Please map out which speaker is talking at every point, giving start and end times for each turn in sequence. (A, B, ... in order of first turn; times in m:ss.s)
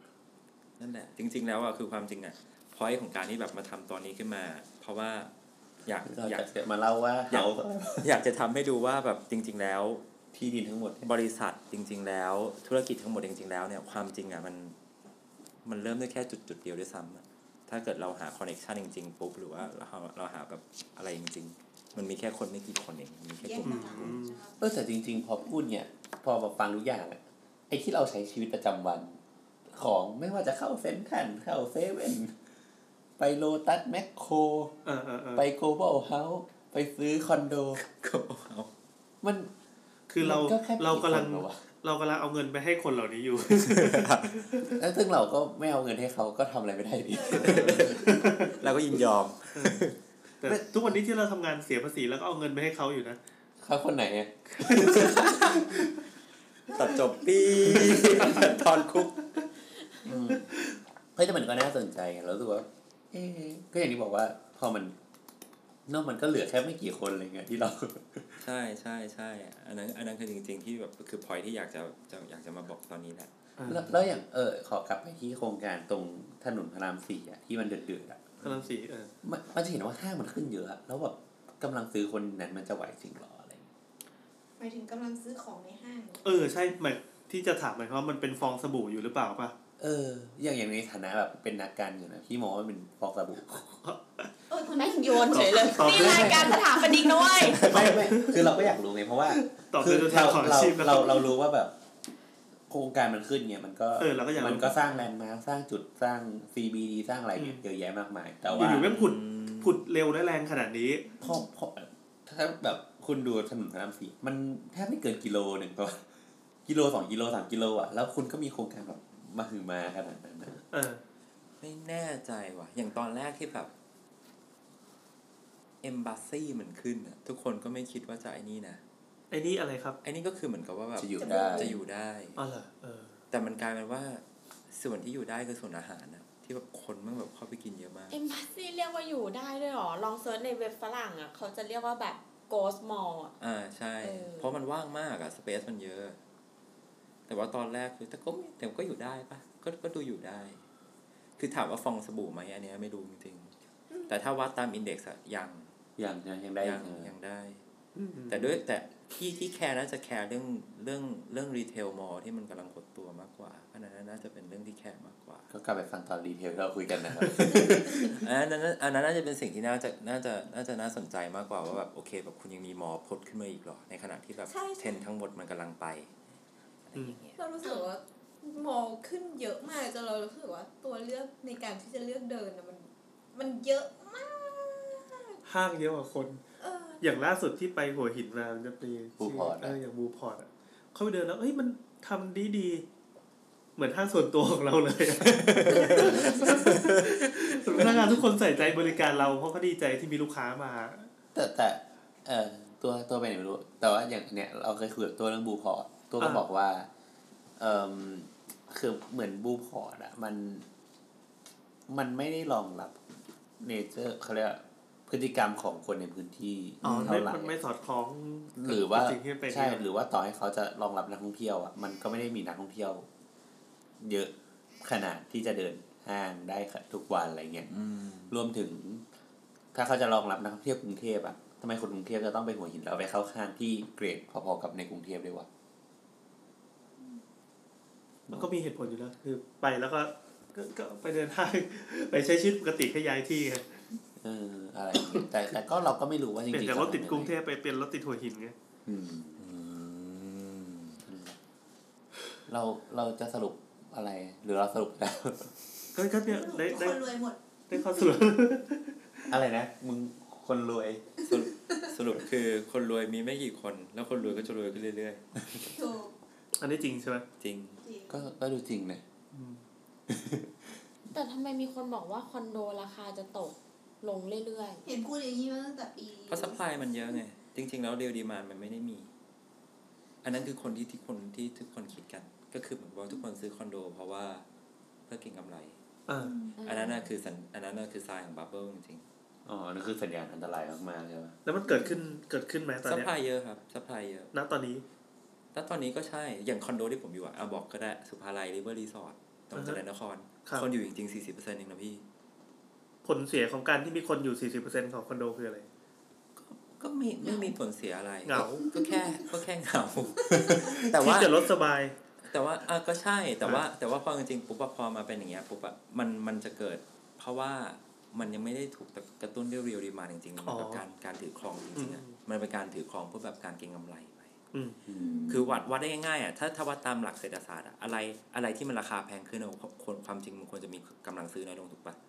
0:00.8-0:05.3 A
0:05.8-0:06.5 A
0:06.0-0:08.1 B
0:07.3-0:10.0 A
0:10.3-0:11.1 B
0:11.0-0:14.8 A
0:15.6-0:24.2 A
0:23.4-0:24.6 C
0:23.6-0:24.4 D
0:24.6-0:29.2 B
0:29.7-0:32.3 B
0:33.2-0:34.7 B
0:34.8-0:35.5 D
0:35.4-0:37.8 B
0:37.8-0:38.7 A
0:39.2-0:39.5 B
0:40.1-0:44.7 D
0:40.2-0:41.6 B
0:43.5-0:44.4 A
0:44.8-0:48.1 B
0:47.1-0:48.6 C
0:47.3-0:50.0 A
0:47.4-0:48.5 D
0:49.6-0:49.8 D
0:50.4-0:53.2 D
0:53.6-0:55.9 B
0:54.6-0:55.5 A
0:56.7-0:59.2 A
0:57.6-0:58.4 B
1:00.0-1:00.5 B
1:01.2-1:05.0 B
1:05.9-1:08.4 B
1:08.4-1:13.3 A
1:13.6-1:13.9 D
1:13.6-1:18.3 B
1:18.4-1:18.7 A
1:18.4-1:19.1 D
1:19.2-1:23.7 B
1:24.6-1:26.3 C
1:26.2-1:29.5 D
1:29.8-1:33.6 B
1:33.6-1:34.3 D
1:34.5-1:37.6 C
1:34.7-1:37.7 E
1:35.3-1:36.6 D
1:35.8-1:36.7 B
1:37.4-1:41.7 B
1:37.5-1:38.6 D
1:39.3-1:41.3 D
1:42.7-1:48.9 B
1:44.0-1:45.1 D
1:47.4-1:47.6 D
1:48.5-1:51.1 D
1:48.6-1:49.8 A
1:51.2-1:56.0 B
1:56.6-2:00.6 B
2:00.7-2:01.0 D
2:01.6-2:03.7 A
2:05.8-2:08.8 A
2:09.3-2:10.0 D
2:10.0-2:12.4 A
2:11.0-2:11.7 B
2:11.2-2:11.7 E
2:12.4-2:13.2 D
2:13.3-2:18.2 A
2:18.1-2:23.3 E
2:23.4-2:26.2 A
2:24.0-2:24.5 E
2:27.3-2:30.6 A
2:31.4-2:33.5 A
2:34.1-2:35.7 A
2:36.0-2:37.1 B
2:36.6-2:37.6 A
2:38.0-2:38.5 D
2:38.3-2:45.5 A
2:45.5-2:48.2 B
2:48.1-2:56.1 A
2:54.5-2:55.0 C
2:56.8-2:57.4 A
2:57.4-3:05.4 C
3:05.4-3:06.4 D
3:06.6-3:07.0 C
3:07.0-3:12.8 D
3:09.2-3:09.8 B
3:13.8-3:21.1 D
3:15.4-3:17.3 A
3:17.8-3:18.1 B
3:21.3-3:26.9 B
3:27.6-3:30.6 B
3:31.9-3:33.0 B
3:33.6-3:37.5 B
3:36.8-3:39.8 D
3:36.9-3:37.2 A
3:38.6-3:43.0 B
3:44.0-3:47.7 B
3:47.7-3:48.4 A
3:48.3-3:49.0 B
3:49.7-3:55.5 B
3:58.3-4:03.8 D
4:04.2-4:07.3 B
4:04.9-4:05.2 D
4:06.5-4:08.5 D
4:08.8-4:09.4 B
4:09.4-4:11.0 A
4:11.0-4:11.4 B
4:12.5-4:15.6 B
4:15.9-4:17.0 D
4:16.3-4:17.4 C
4:17.7-4:19.3 D
4:19.3-4:21.1 B
4:21.2-4:25.2 A
4:25.7-4:26.1 C
4:26.6-4:27.2 D
4:27.4-4:27.8 A
4:27.8-4:28.2 C
4:28.1-4:29.0 B
4:29.3-4:29.6 D
4:30.1-4:30.5 B
4:31.1-4:34.8 E
4:34.8-4:36.9 C
4:36.3-4:39.1 A
4:40.2-4:44.4 A
4:45.1-4:45.8 A
4:46.1-4:46.4 D
4:46.2-4:46.5 C
4:46.6-4:47.0 E
4:46.6-4:49.0 A
4:49.4-4:51.4 B
4:51.4-4:53.1 D
4:52.8-4:54.3 A
4:54.3-4:54.8 D
4:55.5-5:02.0 A
4:59.5-4:59.8 D
5:03.0-5:05.7 D
5:06.4-5:11.5 A
5:07.2-5:07.5 C
5:08.2-5:08.6 D
5:08.7-5:09.1 C
5:10.9-5:11.9 D
5:12.2-5:24.3 A
5:20.4-5:20.8 D
5:21.8-5:22.2 D
5:24.5-5:24.8 D
5:24.8-5:25.5 B
5:24.9-5:25.4 C
5:25.3-5:32.0 A